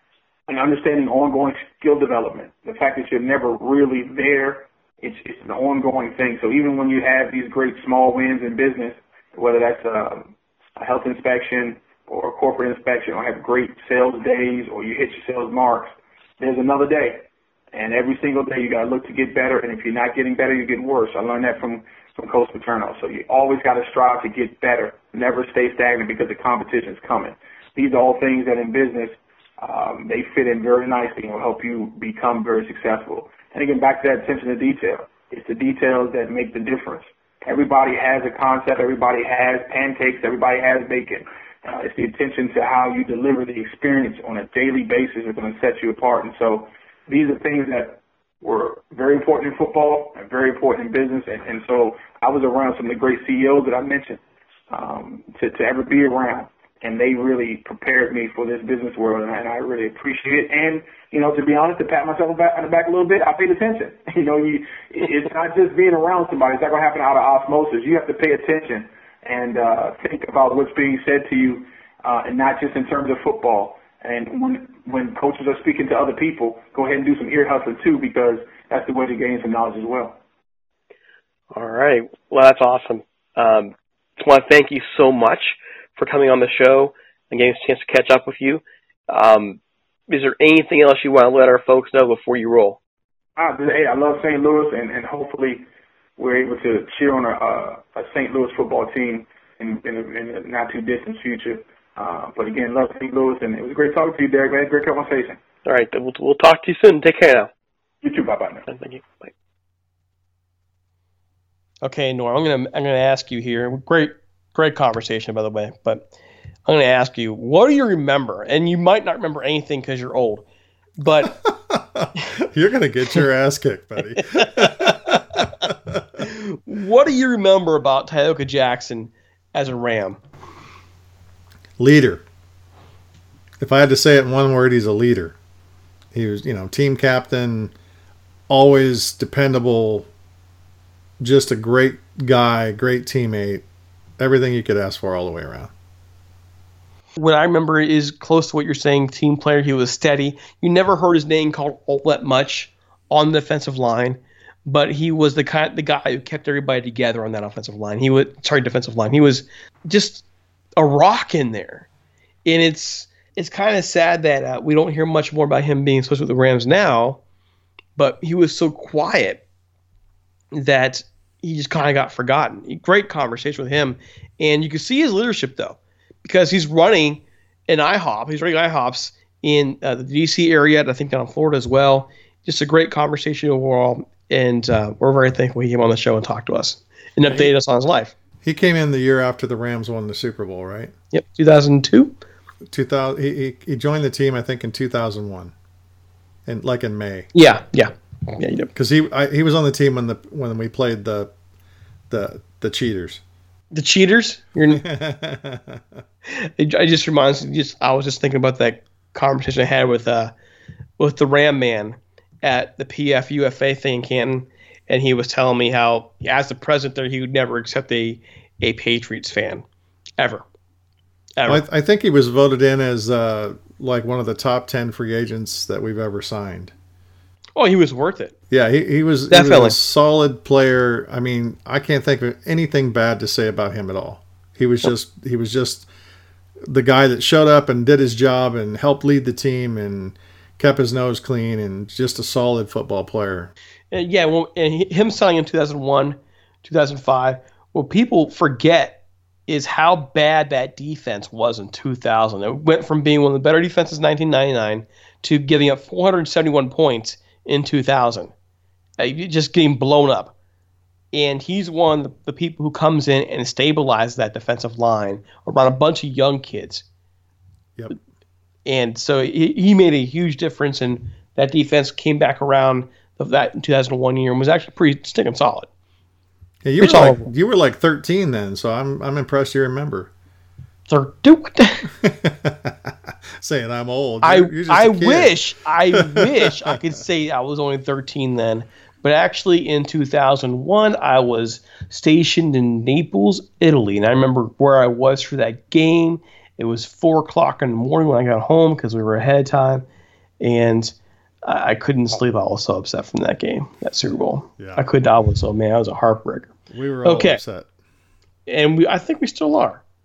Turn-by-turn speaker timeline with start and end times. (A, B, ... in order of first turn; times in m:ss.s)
0:00.5-1:20.2 A
1:21.5-1:32.8 B
1:33.4-1:35.6 A
1:36.2-1:45.4 A
1:45.6-1:47.5 B
1:48.0-1:48.6 A
1:48.6-1:49.3 B
1:51.8-1:56.1 C
1:56.6-2:00.4 C
2:01.0-2:01.4 C
2:01.2-2:06.2 D
2:04.4-2:05.1 C
2:06.2-2:10.2 C
2:11.8-2:12.2 D
2:13.6-2:15.4 D
2:16.1-2:17.7 D
2:18.5-2:20.1 D
2:21.2-2:23.6 D
2:24.2-2:25.7 D
2:27.2-2:40.2 C
2:40.8-2:41.9 C
2:42.4-2:47.2 C
2:48.0-2:49.4 C
2:50.5-3:08.1 C
3:07.3-3:07.5 D
3:08.4-3:10.9 D
3:11.1-3:12.2 C
3:12.7-3:15.5 D
3:16.4-3:17.3 D
3:17.3-3:18.7 C
3:18.7-3:21.3 D
3:22.1-3:23.2 D
3:23.7-3:24.8 C
3:24.7-3:25.8 D
3:26.3-3:30.3 C
3:31.0-3:39.6 C
3:40.2-3:40.4 C
3:41.4-3:41.6 C
3:41.4-3:46.7 D
3:47.6-3:48.3 C
3:48.5-3:55.9 D
3:49.3-3:49.8 C
3:56.6-4:03.5 D
4:03.9-4:18.3 C
4:19.0-4:20.3 C
4:21.1-4:26.8 C
4:28.6-4:35.7 C
4:36.6-4:40.1 D
4:36.8-4:37.3 C
4:40.9-4:41.9 C
4:41.9-4:46.7 D
4:44.2-4:59.8 C
5:00.4-5:06.5 C
5:04.6-5:04.9 D
5:06.7-5:07.7 D
5:07.0-5:07.4 C
5:08.5-5:09.8 C